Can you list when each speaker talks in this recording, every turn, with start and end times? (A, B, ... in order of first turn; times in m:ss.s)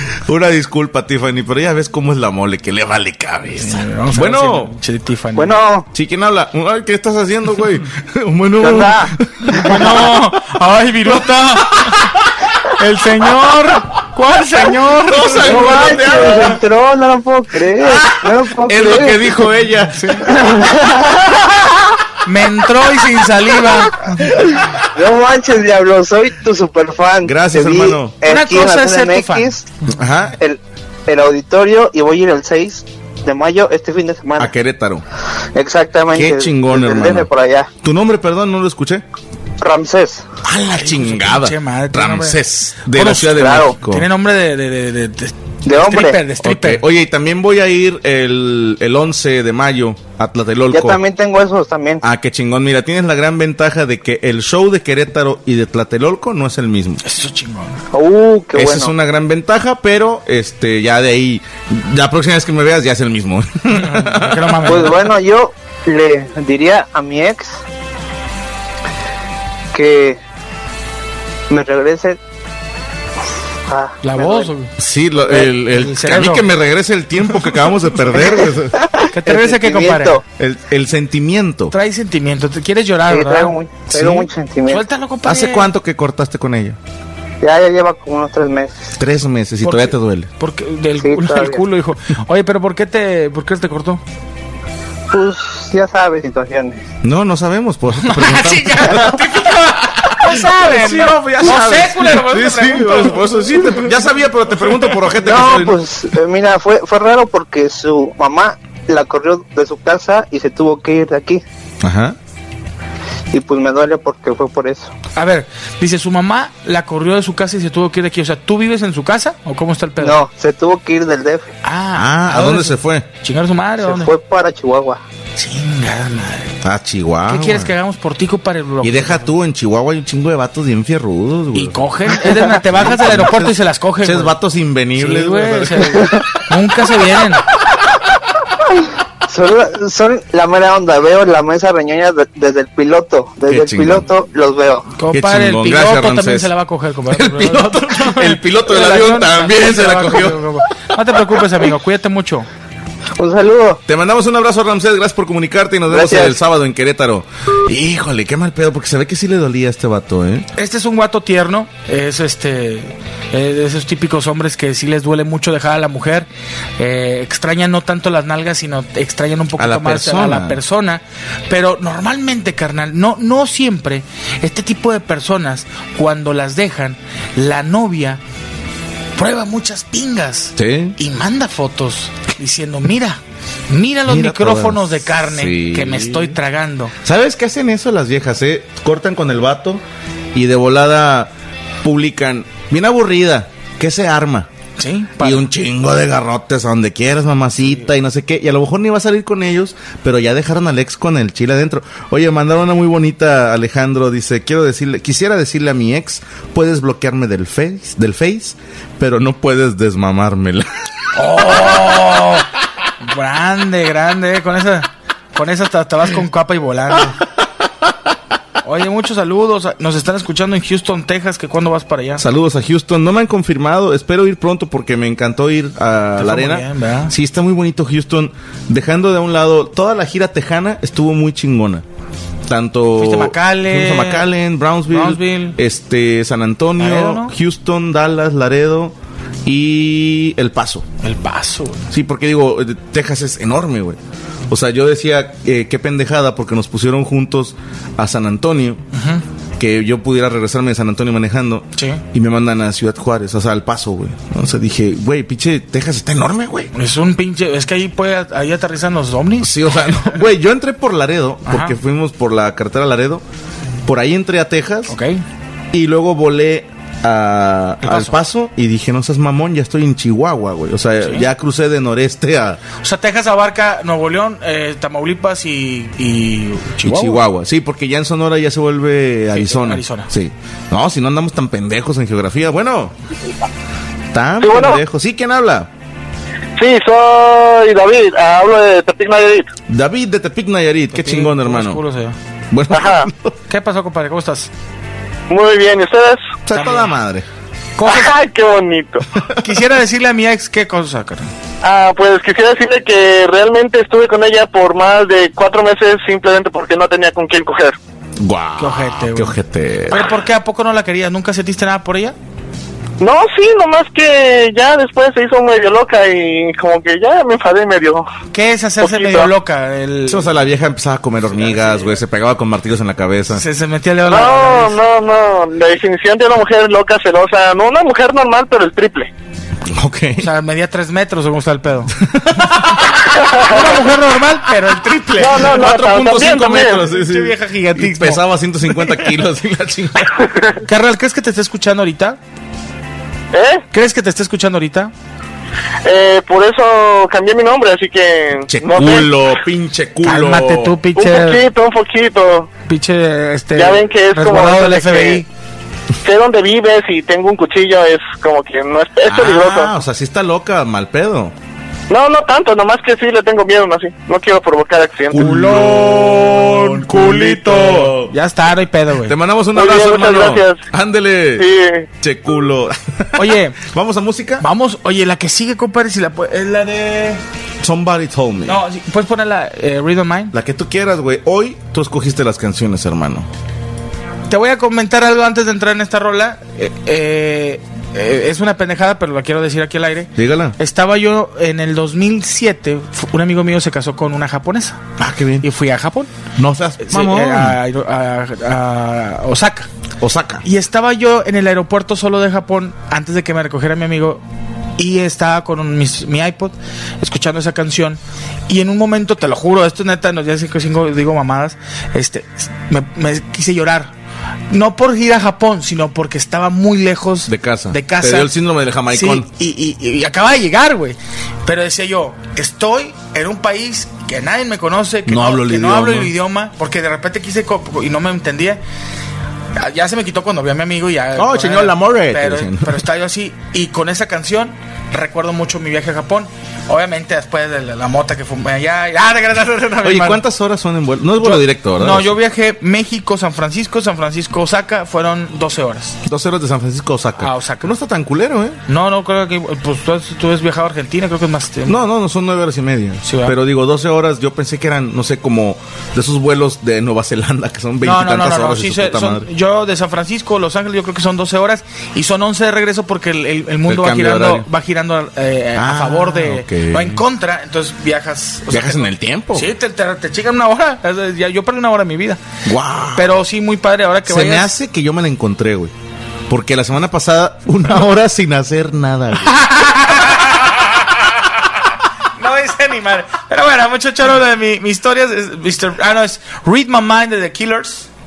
0:00.2-0:04.7 A
0:03.6-0:05.6 B
0:05.4-0:05.9 C
0:05.9-0:10.2 A
0:08.6-0:09.9 C
0:09.5-0:12.1 B
0:12.7-0:16.4 B
0:15.0-0:16.6 A
0:15.4-0:19.5 C
0:17.9-0:20.2 A
0:19.9-0:20.3 B
0:20.3-0:21.1 C
0:22.2-0:24.3 B
0:24.9-0:29.6 C
0:27.2-0:28.2 A
0:28.2-0:29.6 B
0:29.9-0:30.3 A
0:30.4-0:34.5 C
0:34.4-0:35.0 A
0:35.5-0:37.7 C
0:36.1-0:37.3 A
0:37.8-0:39.0 A
0:39.6-0:40.3 C
0:40.4-0:44.1 A
0:40.7-0:46.8 B
0:43.2-0:43.7 C
0:45.6-0:46.3 C
0:46.4-0:51.0 A
0:50.7-0:52.0 C
0:52.0-0:57.0 A
0:57.0-0:57.8 B
0:57.9-0:58.9 C
0:58.5-1:04.7 A
1:03.7-1:04.9 B
1:04.6-1:07.6 C
1:09.7-1:10.2 C
1:11.5-1:12.2 C
1:13.7-1:14.5 C
1:14.0-1:14.7 B
1:14.8-1:18.8 A
1:15.3-1:16.4 B
1:18.1-1:20.2 C
1:19.1-1:20.2 B
1:20.4-1:21.7 A
1:21.7-1:23.5 B
1:23.1-1:24.8 C
1:23.9-1:24.3 A
1:24.7-1:25.7 B
1:25.2-1:26.8 A
1:27.4-1:28.9 C
1:29.0-1:30.3 A
1:29.6-1:34.0 B
1:31.0-1:31.6 C
1:35.1-1:36.8 C
1:37.0-1:45.8 A
1:38.0-1:43.9 B
1:45.2-1:51.4 C
1:51.8-1:52.2 A
1:53.3-1:54.9 C
1:55.2-2:00.2 B
2:00.0-2:01.5 C
2:01.6-2:04.1 B
2:02.0-2:03.0 A
2:03.8-2:05.0 C
2:05.4-2:06.6 B
2:06.6-2:07.7 A
2:07.2-2:09.3 B
2:08.8-2:16.1 A
2:11.6-2:14.3 B
2:15.0-2:17.4 B
2:19.3-2:24.9 C
2:23.5-2:24.0 A
2:25.0-2:32.5 B
2:25.1-2:26.5 A
2:27.1-2:30.5 A
2:33.2-2:33.8 C
2:33.9-2:40.5 A
2:35.9-2:36.4 C
2:40.6-2:58.2 B
2:49.6-2:50.6 A
2:59.2-3:06.9 B
3:00.6-3:01.0 A
3:04.1-3:06.4 A
3:07.0-3:09.8 A
3:10.3-3:11.3 A
3:11.8-3:14.5 A
3:14.8-3:15.5 B
3:15.2-3:30.7 A
3:31.1-3:32.5 B
3:33.0-3:37.2 B
3:38.6-3:42.2 B
3:42.2-3:51.8 A
3:46.2-3:47.1 B
3:52.5-4:00.9 A
3:53.0-3:54.3 B
3:54.9-3:55.6 B
3:56.8-3:57.3 B
4:01.0-4:01.9 B
4:01.9-4:04.0 A
4:04.5-4:08.8 A
4:08.9-4:09.2 B
4:09.6-4:16.7 A
4:11.8-4:12.0 B
4:16.7-4:19.6 B
4:19.4-4:23.2 A
4:21.4-4:21.8 B
4:23.9-4:25.0 A
4:24.9-4:25.2 B
4:25.7-4:32.6 A
4:27.8-4:28.2 B
4:31.0-4:31.3 B
4:32.8-4:37.2 B
4:36.8-4:42.9 A
4:39.3-4:40.1 B
4:44.1-4:45.7 A
4:44.4-4:44.8 D
4:46.6-4:49.5 D
4:49.7-4:51.8 A
4:50.9-4:52.2 B
4:52.5-4:53.3 A
4:52.8-4:53.0 D
4:53.5-4:54.5 B
4:55.3-4:56.2 D
4:56.4-4:57.3 A
4:56.5-4:56.9 B
4:57.8-4:58.1 B
4:58.0-4:59.0 D
4:59.4-5:01.3 B
5:01.6-5:07.7 D
5:08.2-5:10.1 A
5:08.6-5:12.1 B
5:13.0-5:18.0 D
5:18.3-5:20.3 B
5:18.8-5:19.2 D
5:20.1-5:23.4 A
5:21.3-5:21.9 B
5:23.3-5:24.8 B
5:24.1-5:29.1 D
5:29.7-5:30.3 A
5:30.2-5:32.0 B
5:32.0-5:32.9 A
5:33.4-5:35.6 B
5:35.2-5:36.7 D
5:35.3-5:40.3 A
5:36.7-5:38.2 B
5:40.6-5:42.2 B
5:43.3-5:43.6 D
5:43.7-5:44.9 B
5:45.8-5:49.0 D
5:48.5-5:50.8 A
5:50.0-5:51.4 B
5:51.1-5:52.5 D
5:52.7-5:55.3 B
5:53.6-5:55.2 D
5:56.0-5:59.7 D
5:59.0-6:01.3 A
6:01.9-6:05.1 D
6:05.1-6:08.1 A
6:05.1-6:09.2 B
6:09.0-6:11.5 A
6:09.6-6:10.6 D
6:11.4-6:11.8 D
6:12.0-6:14.4 A
6:13.2-6:13.6 B
6:14.4-6:17.2 B
6:17.6-6:18.6 A
6:18.4-6:20.3 B
6:20.3-6:23.3 A
6:24.3-6:34.8 B
6:30.2-6:30.6 A
6:35.0-6:35.5 A
6:35.4-6:36.1 B
6:36.4-6:37.6 A
6:36.8-6:39.7 B
6:40.0-6:40.4 A
6:40.4-6:44.2 B
6:44.8-6:53.9 B
6:54.5-6:58.3 B
6:57.3-6:59.3 A
6:58.9-7:08.6 B
7:05.0-7:06.1 A
7:09.6-7:20.2 B
7:11.1-7:12.8 A
7:19.8-7:22.1 A
7:21.2-7:26.0 B
7:26.0-7:28.6 A
7:27.2-7:27.7 B
7:28.7-7:31.8 B
7:31.6-7:39.3 A
7:33.0-7:33.3 B
7:37.8-7:52.2 B
7:43.6-7:44.5 A
7:45.6-7:47.0 A
7:48.5-7:49.5 A
7:52.4-7:53.1 A
7:52.9-7:54.5 B
7:54.0-7:55.7 A
7:56.3-7:59.4 A
7:59.4-8:00.3 B
8:02.2-8:07.9 B